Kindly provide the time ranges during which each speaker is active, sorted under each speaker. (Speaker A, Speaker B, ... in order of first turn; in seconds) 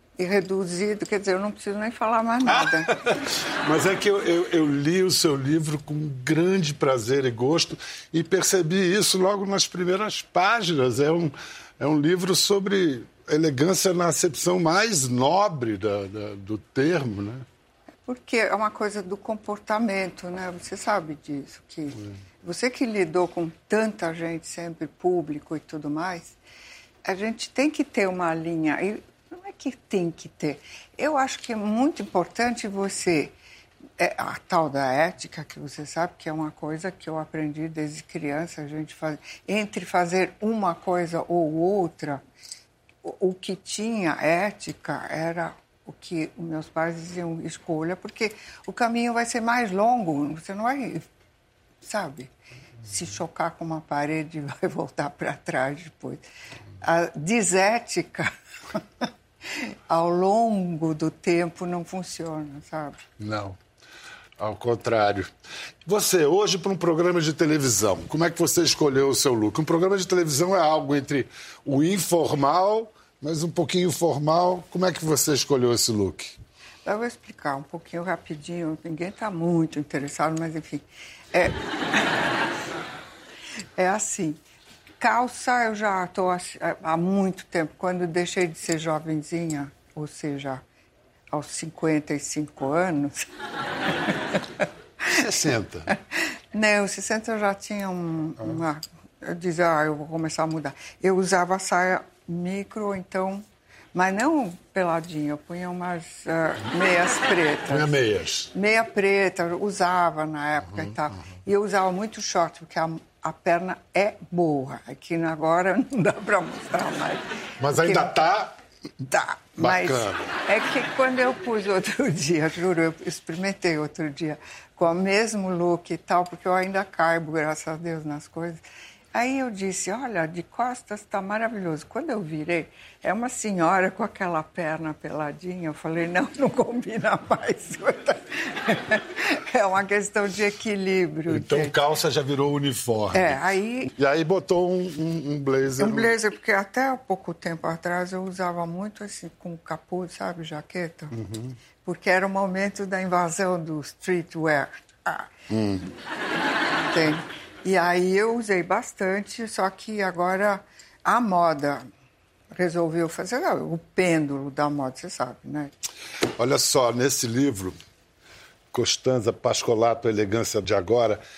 Speaker A: 0.2-3.0, 18.1-26.4, 27.0-33.3, 34.0-42.2, 43.0-51.0, 51.8-52.3, 52.8-56.2, 56.8-63.0, 76.8-81.6, 83.8-84.4, 85.0-90.6, 91.3-93.3, 96.5-107.9, 108.5-118.2, 119.0-128.6, 129.1-141.8, 143.1-143.9, 145.8-151.2, 151.8-155.3, 156.8-161.8, 162.5-165.7
Speaker B: 2.5-17.4, 63.2-63.6, 64.4-65.3, 65.8-76.4, 95.1-95.9, 107.7-108.5, 117.6-118.5, 119.6-120.3, 141.3-146.1, 151.1-151.5, 155.5-155.8, 166.4-167.8, 168.7-171.2